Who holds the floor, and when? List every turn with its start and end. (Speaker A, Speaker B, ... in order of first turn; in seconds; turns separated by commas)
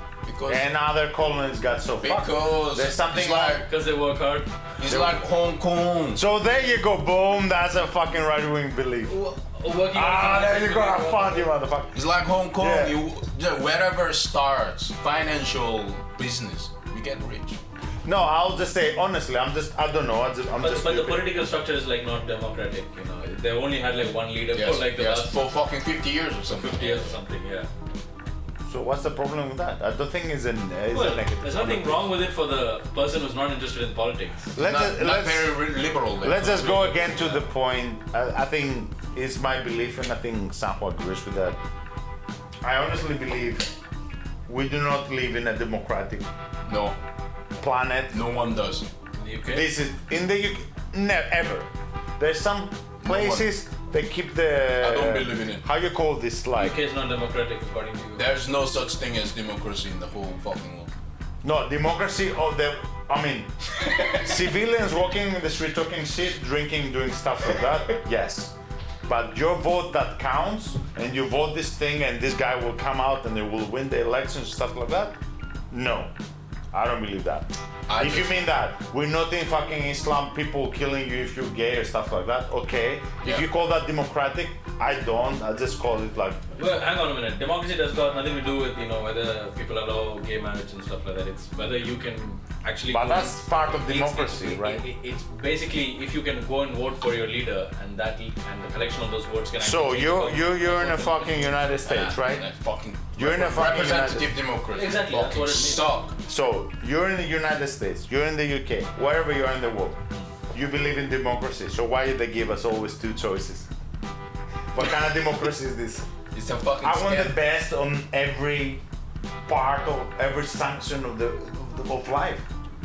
Speaker A: 0.2-0.7, Speaker B: 0.5-3.6, Speaker A: 2.0-3.7, Speaker C: 3.6-4.5, Speaker A: 4.8-6.2, Speaker B: 4.9-5.2, Speaker B: 6.1-9.1, Speaker C: 9.1-11.5, Speaker B: 9.9-13.0, Speaker A: 11.9-17.6, Speaker B: 18.0-21.3, Speaker C: 20.6-25.4, Speaker A: 24.5-27.2, Speaker C: 26.5-27.7, Speaker B: 28.7-32.1, Speaker C: 30.9-34.5, Speaker B: 34.5-35.6, Speaker A: 34.5-36.9, Speaker B: 36.2-41.6, Speaker C: 36.8-37.5, Speaker B: 42.6-43.7, Speaker B: 44.5-46.3, Speaker A: 46.6-47.0, Speaker B: 47.6-48.2, Speaker A: 48.1-48.9, Speaker C: 49.1-49.7, Speaker B: 49.5-51.7, Speaker B: 52.2-56.8, Speaker A: 53.0-53.5, Speaker A: 54.8-55.6, Speaker C: 56.5-58.3, Speaker A: 58.1-60.9, Speaker B: 61.4-68.5, Speaker A: 63.8-64.2, Speaker B: 69.1-75.2, Speaker B: 75.7-76.1, Speaker B: 76.7-86.4, Speaker A: 77.9-78.5, Speaker C: 86.5-102.2, Speaker B: 92.9-94.8, Speaker B: 99.6-102.4, Speaker A: 102.0-106.2, Speaker B: 103.2-104.3, Speaker C: 104.7-105.8, Speaker B: 106.3-110.0, Speaker B: 110.5-113.7, Speaker B: 114.7-116.1, Speaker A: 116.3-117.4, Speaker B: 116.8-118.8, Speaker B: 119.5-122.4